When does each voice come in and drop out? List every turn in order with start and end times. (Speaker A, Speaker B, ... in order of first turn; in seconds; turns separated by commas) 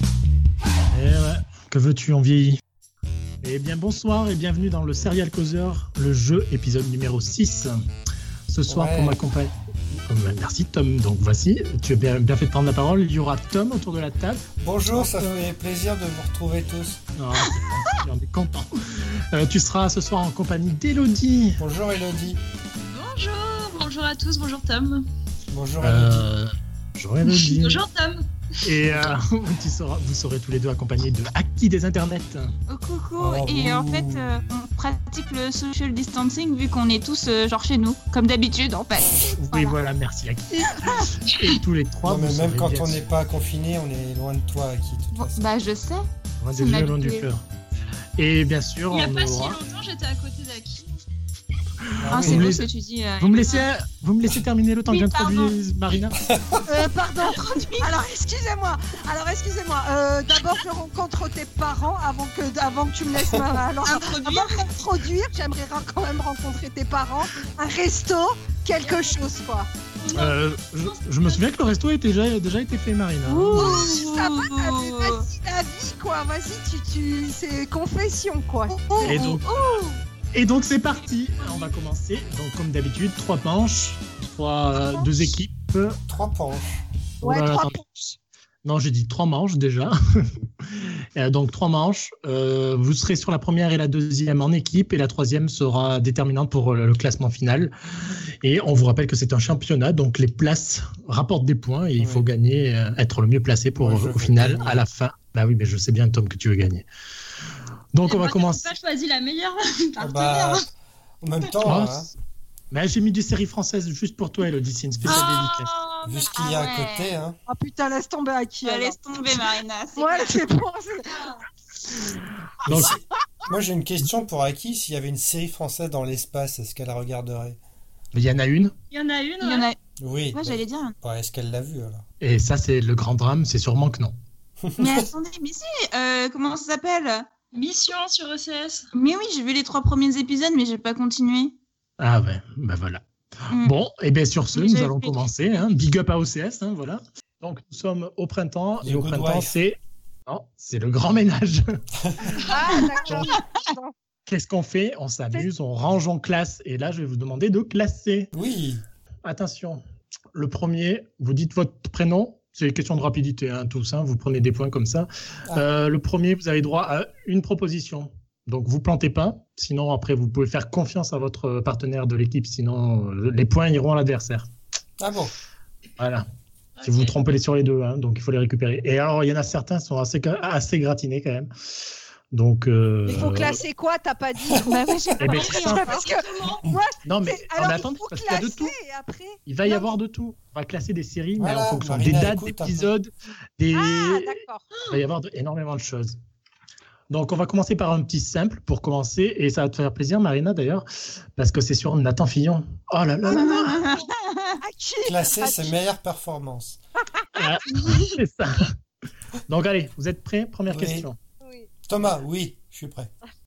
Speaker A: 0.9-2.6, Speaker A: 3.4-7.8, Speaker A: 8.5-9.5, Speaker B: 8.7-9.3, Speaker A: 10.1-15.3, Speaker B: 14.6-17.0, Speaker A: 17.2-21.6, Speaker B: 21.6-22.4, Speaker C: 22.9-25.1, Speaker B: 25.5-26.3, Speaker A: 25.8-27.9, Speaker C: 27.2-28.6, Speaker A: 28.6-32.5, Speaker B: 28.9-29.2, Speaker D: 32.7-39.8, Speaker B: 33.2-34.4, Speaker A: 39.3-43.0, Speaker C: 41.3-41.6, Speaker B: 42.0-45.5, Speaker D: 45.1-47.3, Speaker A: 46.4-47.4, Speaker A: 48.2-49.6, Speaker C: 48.9-51.0, Speaker B: 52.0-52.6, Speaker A: 52.0-52.7, Speaker D: 52.1-53.7, Speaker A: 53.2-56.2, Speaker D: 54.9-55.5, Speaker B: 56.2-56.7, Speaker E: 56.7-69.7, Speaker D: 57.3-57.9, Speaker B: 63.2-63.5, Speaker D: 63.9-64.7, Speaker C: 68.8-69.2, Speaker C: 70.0-71.4, Speaker A: 70.1-73.9, Speaker D: 73.3-75.3, Speaker E: 73.6-79.3, Speaker D: 78.9-80.0, Speaker A: 79.0-79.5, Speaker A: 80.3-86.0, Speaker D: 81.4-81.7, Speaker B: 86.1-86.8, Speaker A: 87.2-87.8, Speaker E: 87.2-88.1, Speaker A: 88.6-97.7, Speaker A: 98.4-106.8, Speaker B: 102.0-102.3, Speaker B: 103.8-104.8, Speaker A: 107.9-108.8, Speaker C: 108.1-110.7, Speaker B: 110.0-110.7, Speaker B: 111.2-112.1, Speaker A: 111.6-112.1, Speaker A: 112.7-115.7, Speaker C: 115.1-116.3, Speaker D: 115.1-115.4, Speaker B: 116.0-117.4, Speaker D: 116.3-117.1, Speaker E: 117.5-119.0, Speaker D: 118.6-120.5, Speaker E: 120.0-121.4, Speaker A: 122.6-123.0, Speaker B: 122.7-127.6, Speaker E: 122.7-123.0, Speaker A: 128.1-128.7, Speaker C: 128.9-129.7, Speaker D: 129.4-129.8, Speaker B: 130.0-132.0, Speaker D: 130.3-130.9, Speaker A: 132.2-134.1, Speaker B: 134.6-135.1, Speaker D: 134.8-137.3, Speaker C: 137.5-138.9, Speaker D: 138.9-141.6, Speaker A: 142.0-151.7, Speaker D: 143.5-143.7, Speaker D: 144.6-145.2, Speaker B: 148.8-149.5, Speaker B: 152.0-152.4, Speaker E: 152.2-153.9, Speaker D: 153.1-153.6, Speaker A: 154.3-158.3, Speaker B: 158.3-158.8, Speaker A: 159.2-159.8, Speaker A: 160.3-174.5, Speaker B: 175.0-175.3, Speaker A: 176.0-176.3, Speaker C: 176.8-177.2, Speaker A: 176.8-181.5, Speaker A: 182.3-183.6, Speaker E: 183.1-189.9, Speaker D: 184.7-186.1, Speaker A: 185.2-185.8, Speaker C: 185.3-186.7, Speaker A: 187.1-188.7, Speaker A: 189.5-196.2, Speaker B: 191.4-192.9, Speaker E: 193.7-194.7, Speaker A: 197.1-200.8, Speaker A: 201.4-203.8, Speaker E: 203.2-204.1, Speaker D: 203.3-204.6, Speaker E: 204.6-205.7, Speaker B: 205.0-206.8, Speaker A: 207.4-208.7, Speaker E: 207.7-208.0, Speaker A: 209.5-211.2, Speaker B: 210.7-211.1, Speaker E: 211.4-211.7, Speaker B: 211.9-213.1